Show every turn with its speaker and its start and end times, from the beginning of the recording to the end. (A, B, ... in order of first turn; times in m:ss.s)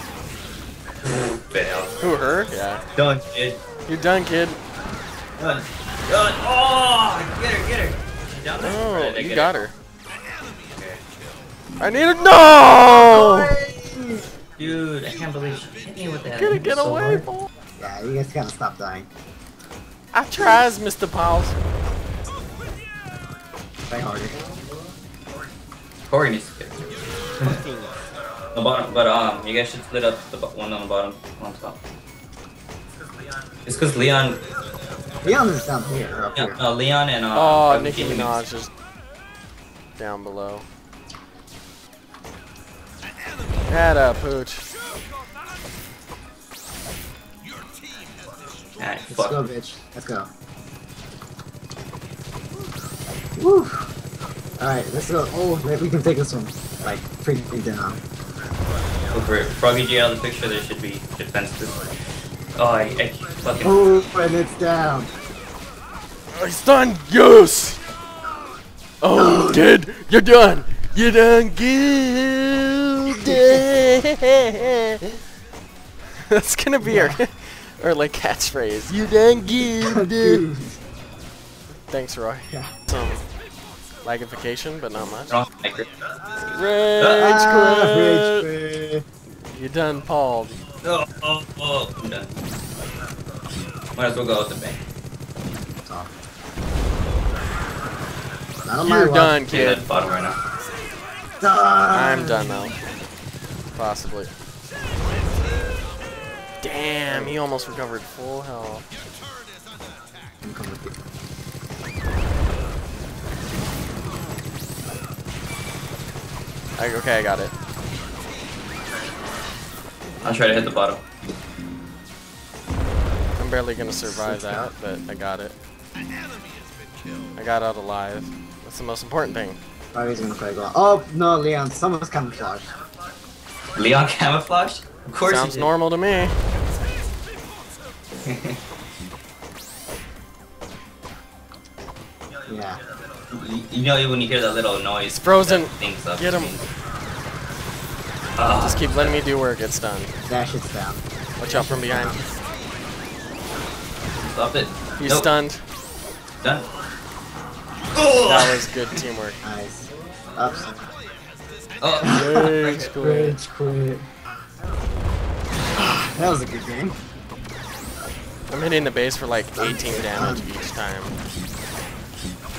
0:01.0-0:01.9 A
0:02.0-0:02.8 B
0:03.0-0:03.6 A
0:03.8-0:04.6 B
0:05.4-0:09.6 A
0:08.6-0:09.7 B
0:10.7-0:11.0 A
0:11.8-0:13.6 B
0:13.0-0:14.3 C
0:14.6-0:17.3 A
0:16.3-0:17.5 B
0:17.8-0:19.1 C
0:20.1-0:21.6 B
0:20.4-0:20.6 C
0:23.9-0:24.4 C
0:26.1-0:27.6 A
0:27.4-0:27.9 B
0:28.5-0:31.8 A
0:33.6-0:34.4 A
0:35.2-0:36.6 C
0:36.3-0:38.4 A
0:37.3-0:38.7 B
0:40.0-0:40.6 B
0:43.7-0:44.6 B
0:48.8-0:49.4 A
0:49.1-0:50.3 C
0:53.4-0:53.9 C
0:54.6-0:58.0 C
0:59.1-1:01.9 A
1:02.5-1:03.8 A
1:03.6-1:05.1 C
1:06.3-1:07.8 B
1:09.0-1:15.2 B
1:09.1-1:09.6 C
1:13.1-1:13.7 C
1:16.2-1:20.4 B
1:16.8-1:17.2 C
1:19.8-1:20.8 C
1:21.9-1:23.2 B
1:22.5-1:22.7 C
1:24.0-1:25.4 B
1:25.3-1:25.9 A
1:26.4-1:28.4 B
1:27.0-1:27.4 A
1:27.2-1:29.0 C
1:29.3-1:30.6 B
1:30.8-1:32.4 A
1:34.0-1:34.8 A
1:35.8-1:36.1 C
1:38.6-1:39.4 C
1:38.8-1:39.8 B
1:39.5-1:40.4 A
1:41.4-1:42.7 C
1:41.9-1:42.7 B
1:43.7-1:44.3 B
1:46.6-1:48.8 B
1:47.1-1:47.4 C
1:50.4-1:50.9 C
1:56.8-1:57.5 B
2:00.2-2:01.0 A
2:03.4-2:05.5 B
2:04.0-2:04.7 C
2:07.4-2:09.6 B
2:09.9-2:12.7 C
2:13.8-2:15.7 A
2:15.2-2:16.3 B
2:18.2-2:18.6 A
2:22.5-2:22.8 C
2:23.3-2:26.6 A
2:25.1-2:26.6 B
2:28.4-2:29.2 A
2:28.5-2:30.1 B
2:30.2-2:32.2 C
2:31.4-2:32.2 B
2:34.2-2:35.3 A
2:35.0-2:35.6 B
2:36.4-2:36.7 A
2:37.9-2:38.7 A
2:38.2-2:39.4 B
2:39.4-2:40.9 C
2:41.8-2:43.0 A
2:42.0-2:43.4 B
2:42.0-2:44.1 C
2:45.7-2:47.0 C
2:48.5-2:51.1 B
2:49.6-2:50.5 C